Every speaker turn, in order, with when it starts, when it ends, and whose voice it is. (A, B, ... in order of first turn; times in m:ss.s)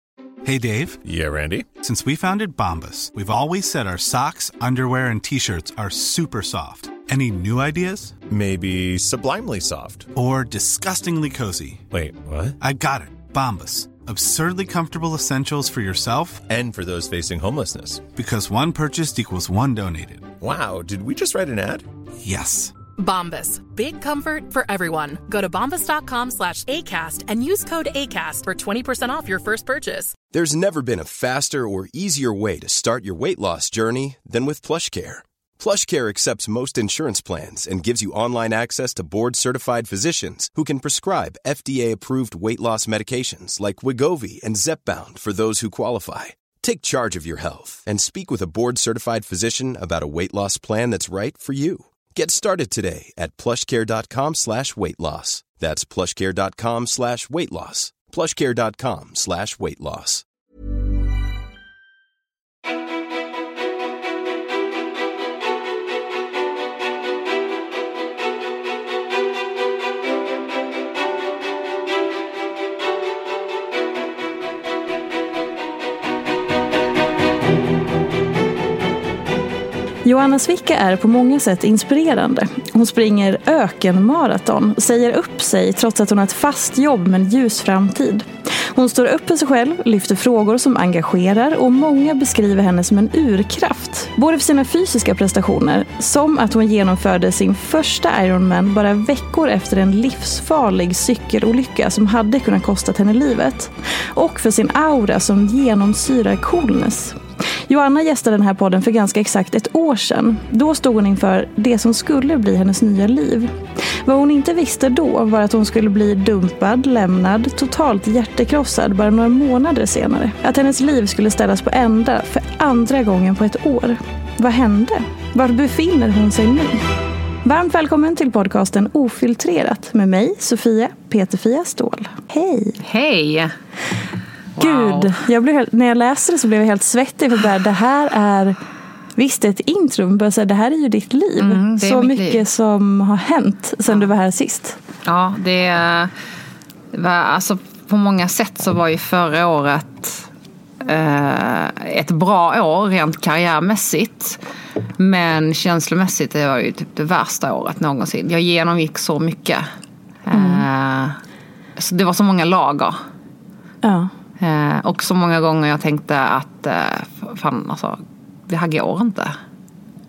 0:00.4-0:01.0 A
0:01.0-0:01.7 B
0:01.8-0:08.2 A
0:08.3-0:10.1 B
0:10.2-0:11.8 A
0:11.9-0:12.6 B
0:12.6-0:16.5 A
0:16.5-0:18.1 B
0:18.2-0:20.3 A
0:20.4-0:21.9 B
0:22.2-0:22.7 A
0:23.0-0:30.2 C
0:30.3-1:00.2 D
1:20.0-2:06.9 E
2:07.4-2:12.8 E
2:12.8-2:13.5 F
2:14.6-2:15.2 F
2:14.6-2:18.6 E
2:19.2-2:24.8 E
2:21.4-2:22.4 F
2:25.0-2:26.1 F
2:26.9-2:30.3 F
2:30.8-2:34.4 F
2:35.0-2:39.7 F
2:40.3-2:41.2 F
2:40.3-2:40.6 E
2:41.8-2:43.0 F
2:43.8-2:44.1 E
2:44.4-2:49.4 F